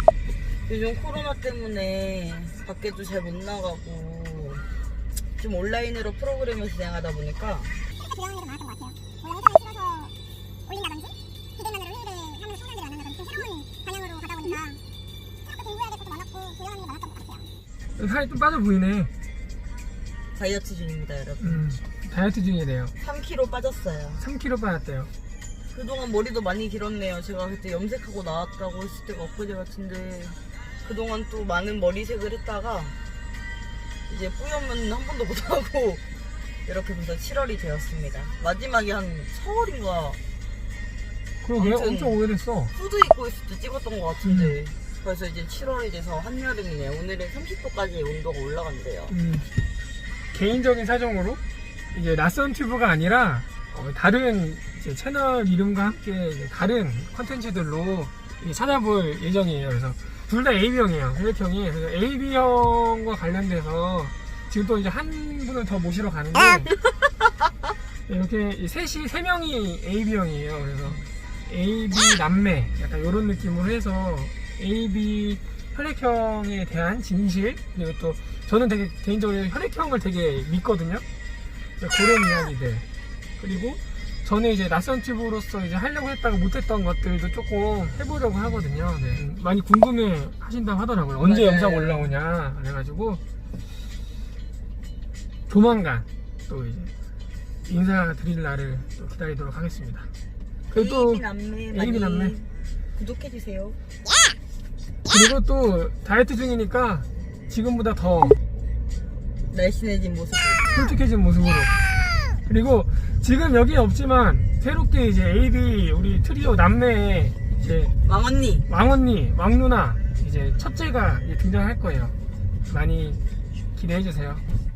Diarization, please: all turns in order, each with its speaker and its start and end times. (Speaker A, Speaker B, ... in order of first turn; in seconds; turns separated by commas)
Speaker A: 0.7-4.6, Speaker A: 5.4-7.7, Speaker B: 8.0-10.1, Speaker B: 10.7-14.8, Speaker B: 15.4-17.5, Speaker C: 17.9-19.1, Speaker A: 20.3-21.7, Speaker C: 21.4-22.9, Speaker A: 23.0-24.2, Speaker C: 24.2-25.1, Speaker A: 25.7-32.9, Speaker A: 34.1-36.0, Speaker A: 36.7-40.2, Speaker C: 41.4-42.7, Speaker A: 41.6-42.2, Speaker A: 42.7-49.1, Speaker C: 44.2-44.6, Speaker C: 49.1-49.5, Speaker C: 50.3-51.4, Speaker C: 51.9-66.7, Speaker C: 68.1-81.0, Speaker C: 81.8-82.8, Speaker C: 83.4-93.2, Speaker A: 91.2-92.1, Speaker C: 95.5-96.9, Speaker C: 97.7-100.1, Speaker C: 100.7-102.4, Speaker A: 100.7-103.8, Speaker C: 105.1-108.4, Speaker A: 109.5-110.7, Speaker C: 110.7-111.7, Speaker C: 112.5-117.9, Speaker A: 118.0-118.7, Speaker C: 118.7-122.2, Speaker C: 122.7-123.2, Speaker C: 123.8-124.4